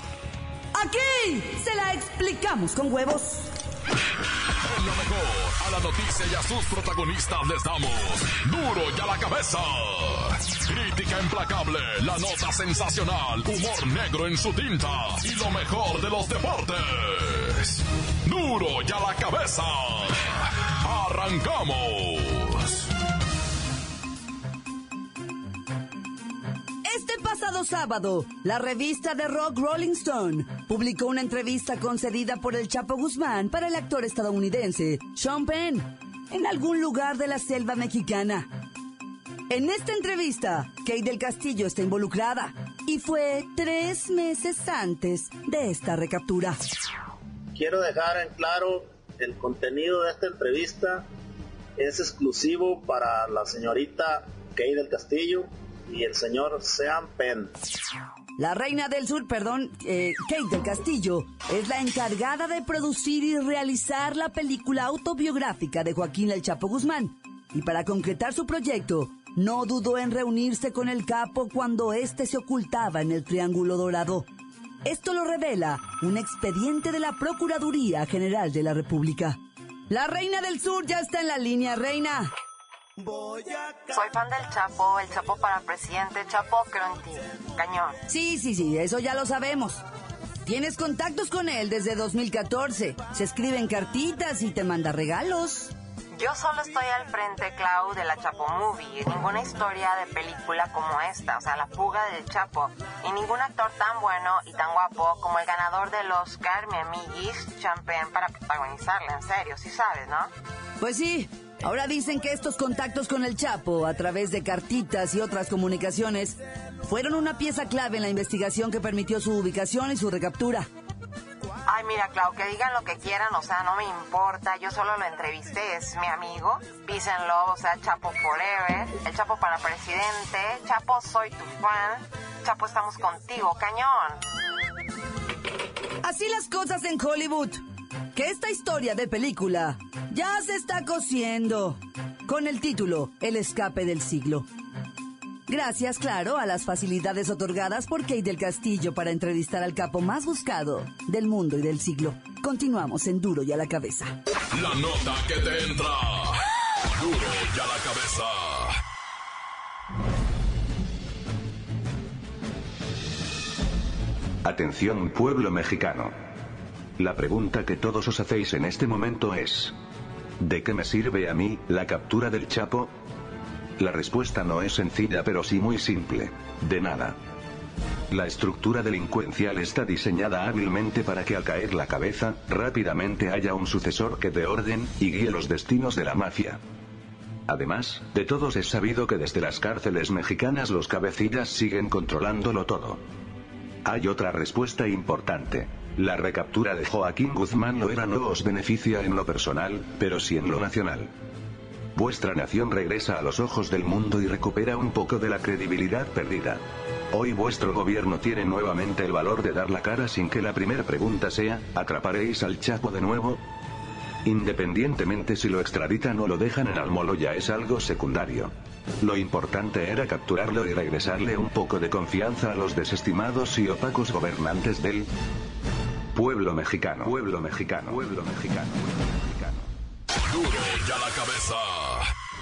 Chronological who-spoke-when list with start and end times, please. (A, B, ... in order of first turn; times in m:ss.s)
0:00.7-0:03.5 A
0:04.7-0:22.8 B
0:26.8-0:38.5 A
0:39.5-0:46.6 A
0:47.5-0:51.0 C
0:51.8-0:57.5 C
0:58.4-1:14.3 A
1:14.8-1:19.4 A
1:19.9-1:22.3 A
1:23.9-1:28.0 D
1:28.1-1:29.8 A
1:30.5-1:35.7 A
1:36.1-1:50.3 D
1:50.8-2:00.7 A
2:01.7-2:14.2 D
2:16.0-2:17.6 A
2:18.2-2:24.5 A
2:25.5-2:34.1 A
2:34.5-2:36.4 B
2:36.9-2:38.8 B
2:44.4-2:46.1 E
2:47.0-2:49.7 E
2:50.4-2:52.9 E
2:53.8-2:57.2 E
2:58.1-3:06.6 E
3:07.5-3:13.0 E
3:13.8-3:21.1 E
3:21.9-3:26.6 E
3:27.1-3:33.4 E
3:34.2-3:45.1 E
3:46.1-3:49.7 E
3:50.2-3:52.1 B